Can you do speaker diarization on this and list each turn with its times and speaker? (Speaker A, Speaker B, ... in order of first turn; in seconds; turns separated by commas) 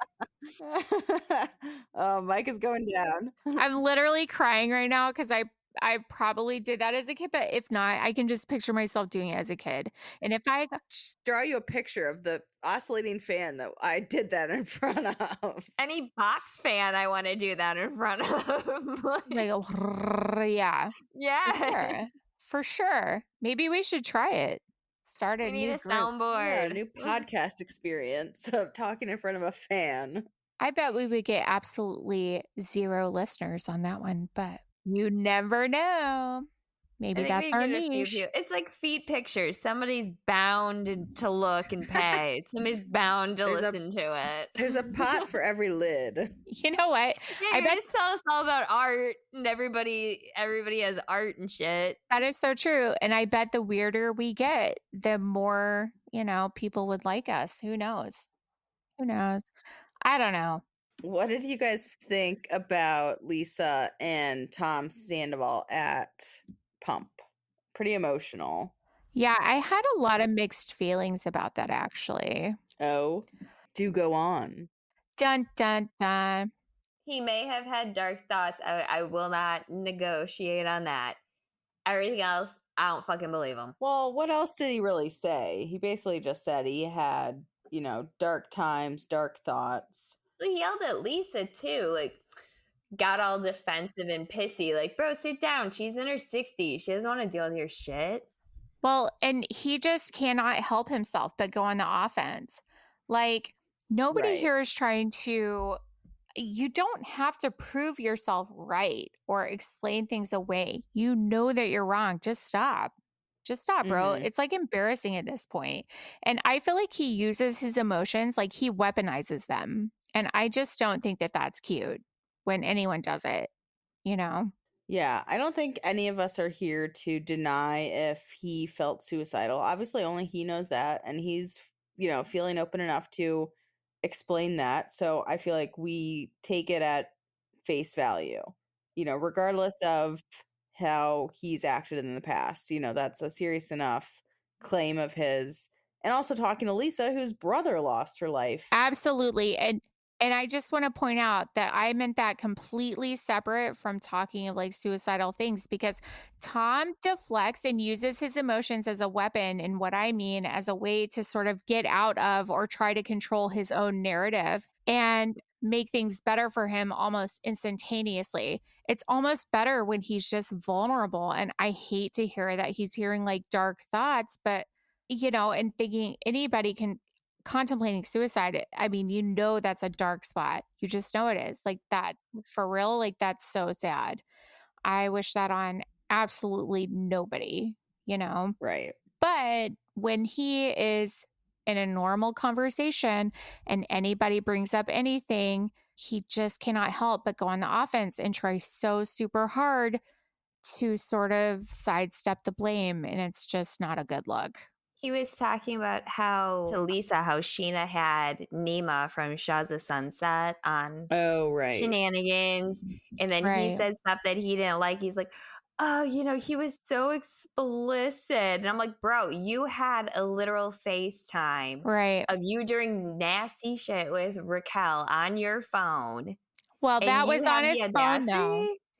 Speaker A: 0.6-3.6, Speaker B: 3.6-10.8, Speaker A: 10.9-15.7, Speaker C: 15.8-19.5, Speaker B: 19.3-20.9, Speaker C: 21.1-22.0, Speaker B: 21.4-26.1, Speaker C: 25.4-27.2, Speaker A: 26.3-30.2, Speaker B: 30.6-36.5, Speaker B: 37.0-38.2, Speaker C: 37.1-44.6, Speaker A: 43.5-43.8, Speaker A: 44.6-46.3, Speaker B: 46.5-47.8, Speaker C: 47.4-52.0, Speaker B: 52.1-58.3, Speaker B: 59.0-59.4, Speaker B: 60.0-60.6, Speaker A: 61.0-67.2, Speaker A: 67.7-68.7, Speaker B: 69.1-72.6, Speaker A: 72.8-74.7, Speaker B: 75.2-76.5, Speaker C: 77.0-81.2, Speaker C: 81.8-83.7, Speaker A: 83.8-90.2, Speaker C: 90.4-92.2, Speaker C: 92.9-98.3, Speaker B: 98.8-105.8, Speaker A: 104.1-104.5, Speaker B: 106.3-112.9, Speaker B: 113.4-123.5, Speaker A: 113.8-114.3, Speaker B: 124.0-124.5, Speaker A: 124.9-148.7, Speaker B: 148.7-184.2, Speaker B: 184.8-188.6, Speaker A: 188.6-188.9, Speaker B: 189.2-200.0, Speaker B: 200.6-204.7, Speaker C: 205.0-211.1, Speaker A: 211.1-211.9, Speaker C: 211.7-226.4, Speaker B: 213.4-213.8, Speaker B: 221.8-222.3, Speaker B: 226.8-228.7, Speaker C: 227.0-228.8